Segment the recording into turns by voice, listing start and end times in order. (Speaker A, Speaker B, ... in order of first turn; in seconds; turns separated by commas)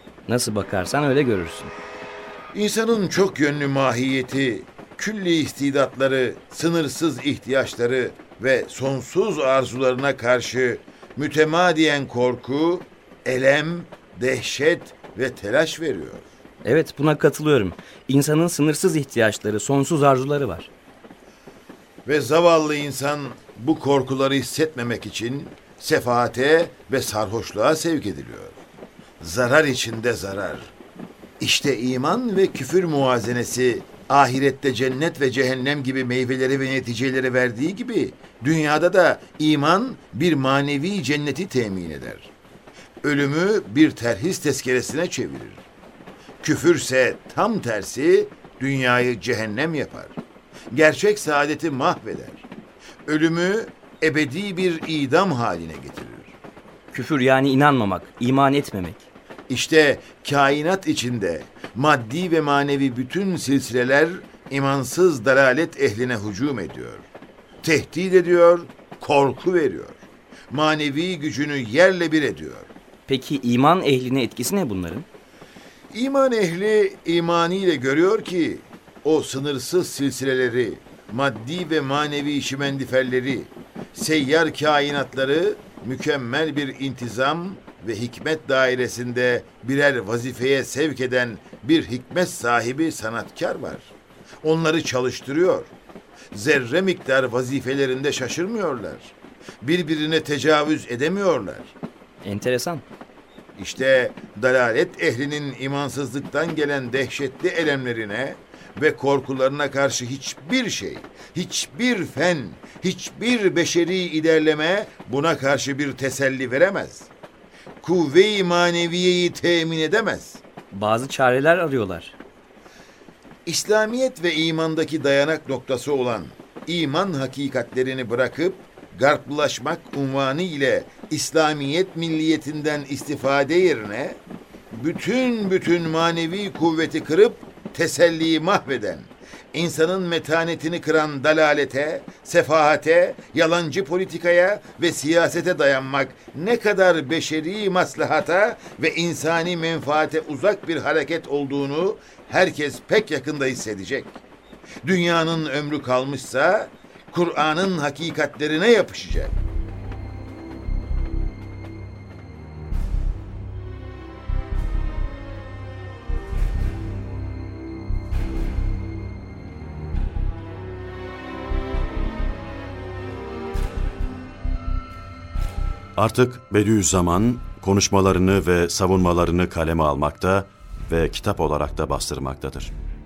Speaker A: 0.3-1.7, Speaker B: 2.5-16.2, Speaker A: 16.6-20.7, Speaker B: 22.1-28.6, Speaker B: 29.2-30.7, Speaker B: 31.4-42.3, Speaker B: 43.0-45.6, Speaker B: 46.4-50.2, Speaker B: 50.7-52.5, Speaker B: 53.1-56.3, Speaker A: 56.9-59.0, Speaker B: 59.5-67.0, Speaker B: 67.6-72.7, Speaker A: 73.1-75.0, Speaker B: 75.9-95.7, Speaker B: 96.3-101.7, Speaker A: 102.2-102.8, Speaker B: 103.6-117.1, Speaker B: 117.8-120.4, Speaker A: 120.7-122.2, Speaker B: 123.5-134.2, Speaker B: 134.7-154.2, Speaker B: 154.8-159.4, Speaker C: 175.9-182.7